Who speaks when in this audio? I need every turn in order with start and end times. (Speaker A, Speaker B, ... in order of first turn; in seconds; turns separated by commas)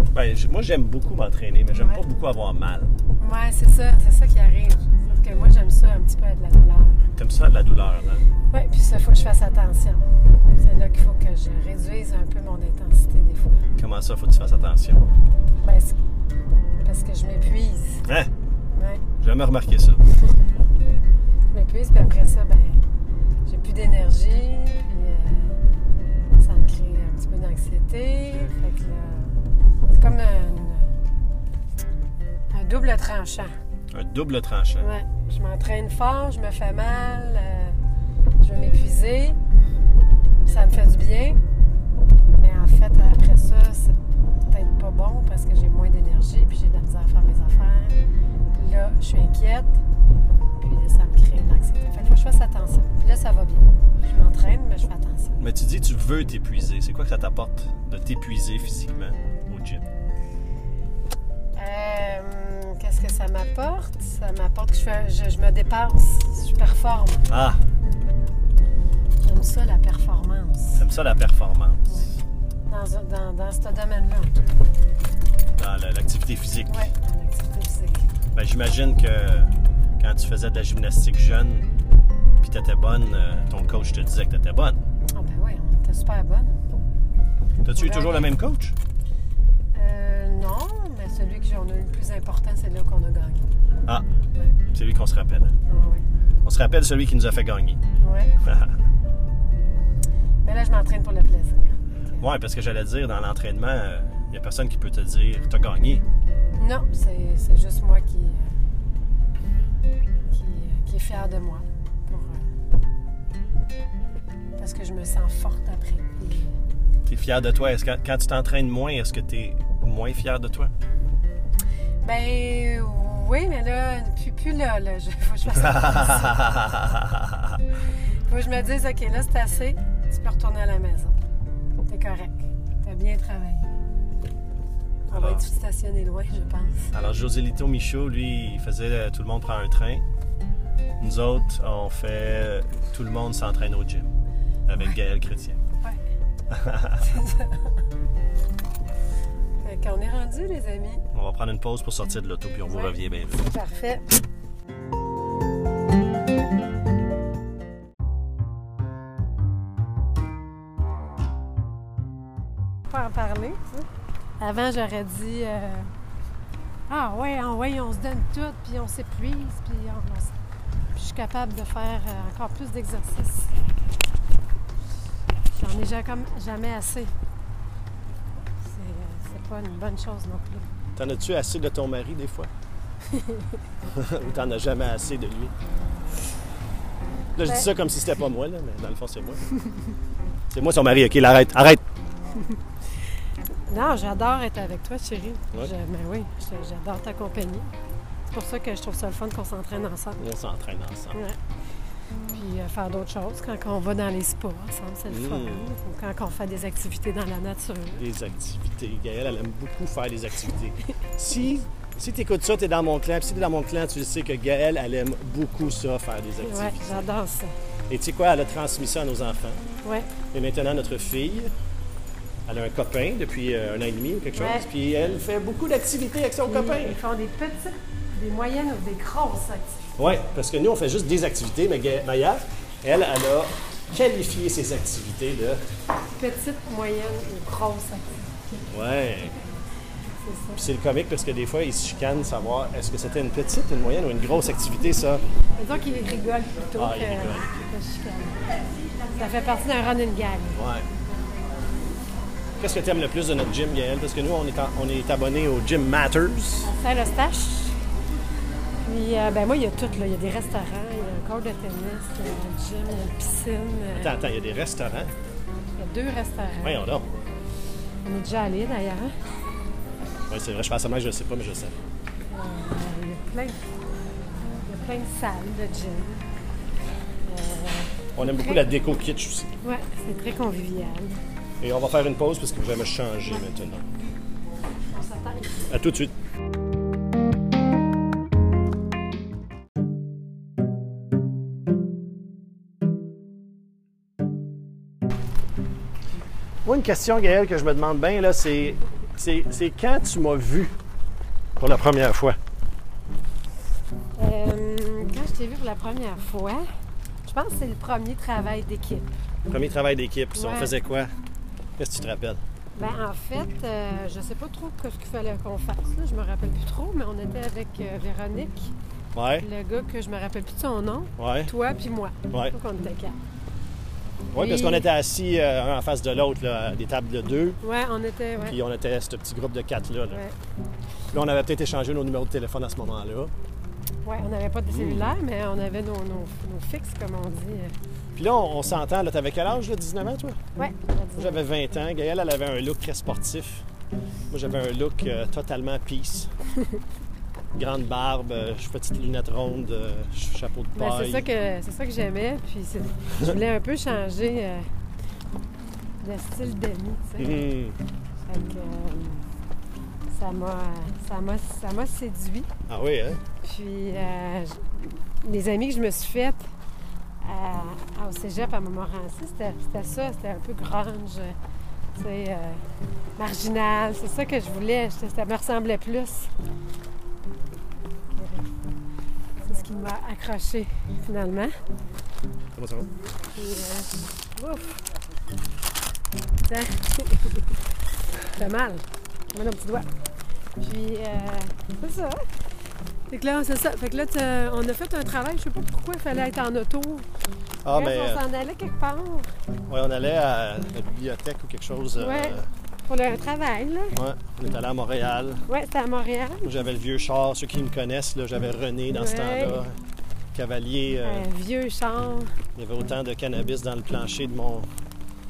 Speaker A: 0.1-2.9, Speaker B: 1.7-2.0, Speaker B: 3.2-7.1, Speaker A: 7.2-8.2, Speaker B: 8.5-10.0, Speaker B: 10.6-13.6, Speaker A: 13.8-15.1, Speaker B: 15.6-16.0, Speaker B: 16.8-18.0, Speaker B: 18.8-19.0, Speaker A: 19.2-20.0, Speaker B: 21.5-22.8, Speaker B: 23.5-29.4, Speaker B: 29.9-30.9, Speaker B: 32.5-33.5, Speaker A: 33.9-34.9, Speaker B: 34.8-37.8, Speaker B: 38.4-39.4, Speaker B: 40.5-41.4, Speaker B: 42.3-48.0, Speaker B: 48.5-49.7, Speaker B: 50.6-55.4, Speaker A: 55.4-59.9, Speaker B: 61.6-67.3, Speaker A: 67.3-67.6, Speaker B: 69.2-70.8, Speaker A: 70.8-72.1, Speaker B: 72.7-74.5, Speaker A: 75.6-76.9, Speaker B: 76.7-78.0, Speaker A: 78.3-81.7, Speaker A: 82.4-84.8, Speaker B: 85.1-86.5, Speaker A: 87.6-88.8, Speaker B: 87.7-88.3, Speaker B: 89.7-93.5, Speaker A: 94.7-95.6, Speaker B: 95.7-96.0, Speaker A: 96.4-97.8, Speaker B: 98.0-98.3, Speaker A: 98.4-98.7, Speaker B: 100.4-102.2, Speaker A: 102.2-106.0, Speaker B: 106.6-108.5, Speaker B: 110.3-112.5, Speaker B: 114.6-116.5, Speaker A: 117.0-120.7, Speaker B: 122.0-126.5, Speaker A: 125.6-127.3, Speaker B: 128.3-131.1, Speaker B: 131.8-133.8, Speaker A: 135.1-135.4, Speaker B: 135.1-136.9, Speaker A: 136.9-140.1, Speaker A: 141.0-144.1, Speaker A: 144.7-145.6, Speaker A: 146.5-147.0, Speaker B: 147.0-147.7, Speaker B: 149.6-151.0, Speaker A: 151.1-153.4, Speaker B: 152.7-154.1, Speaker B: 162.9-163.8, Speaker B: 164.4-165.9, Speaker B: 166.9-170.3, Speaker B: 170.9-173.5, Speaker B: 175.5-177.1, Speaker B: 178.5-180.7, Speaker A: 180.9-182.5, Speaker B: 183.1-183.6, Speaker A: 183.9-185.5, Speaker A: 187.3-189.4, Speaker A: 190.5-191.8, Speaker B: 193.7-197.7, Speaker B: 198.3-200.2, Speaker A: 200.2-201.2, Speaker B: 202.3-208.0, Speaker A: 205.1-205.7, Speaker A: 208.0-217.0, Speaker B: 216.4-217.5, Speaker A: 217.9-219.6, Speaker B: 219.8-220.1, Speaker A: 220.3-221.5, Speaker A: 222.4-227.0, Speaker B: 224.3-224.7, Speaker B: 226.4-229.8, Speaker A: 230.0-235.6, Speaker B: 236.2-238.6, Speaker A: 238.7-239.4, Speaker B: 240.2-240.6, Speaker A: 240.6-245.2, Speaker B: 245.6-248.4, Speaker A: 246.8-247.6, Speaker B: 249.1-250.6, Speaker A: 250.5-250.8, Speaker A: 252.6-256.7, Speaker B: 256.6-257.8, Speaker B: 258.8-264.1, Speaker A: 263.9-265.1, Speaker B: 265.8-266.8, Speaker A: 266.6-267.1, Speaker B: 268.0-269.1, Speaker A: 270.3-271.8, Speaker B: 272.3-273.6, Speaker B: 274.6-276.2, Speaker B: 277.2-278.6, Speaker A: 278.1-279.5, Speaker B: 279.6-281.1, Speaker A: 281.6-283.8, Speaker B: 284.9-285.7, Speaker A: 285.7-286.1, Speaker A: 296.6-300.8, Speaker A: 301.6-302.4, Speaker B: 304.2-306.6, Speaker B: 307.2-309.1, Speaker A: 309.5-311.1, Speaker B: 310.3-310.7, Speaker A: 311.8-312.4, Speaker B: 312.7-318.7, Speaker A: 319.1-319.4, Speaker B: 319.4-323.2, Speaker A: 321.2-321.5, Speaker A: 322.3-322.5, Speaker A: 324.3-327.6, Speaker B: 324.3-324.9, Speaker B: 327.6-328.6, Speaker A: 328.4-330.2, Speaker B: 330.1-330.4, Speaker A: 331.1-333.3, Speaker B: 334.0-337.7, Speaker A: 334.7-335.1, Speaker A: 338.1-340.4, Speaker B: 340.6-341.4, Speaker A: 341.1-343.6, Speaker A: 344.3-346.3, Speaker A: 347.5-351.3, Speaker B: 350.7-354.7, Speaker B: 356.0-357.4, Speaker A: 357.2-357.8, Speaker B: 358.2-359.2, Speaker B: 360.1-362.5, Speaker A: 362.7-363.2, Speaker B: 363.4-366.4, Speaker B: 367.2-371.4, Speaker B: 371.9-372.6, Speaker B: 373.2-376.3, Speaker B: 378.1-378.5, Speaker B: 379.4-381.5, Speaker A: 382.5-382.9, Speaker B: 383.3-384.8, Speaker B: 386.5-387.5, Speaker B: 388.2-389.9, Speaker B: 390.6-392.2, Speaker B: 393.1-397.1, Speaker A: 397.6-398.2, Speaker B: 397.7-399.3, Speaker A: 399.7-402.5, Speaker B: 402.0-403.9, Speaker A: 403.9-405.4, Speaker B: 405.5-406.5, Speaker A: 406.4-409.8, Speaker B: 408.9-409.6, Speaker A: 410.3-411.3, Speaker B: 411.0-412.4, Speaker A: 412.6-414.7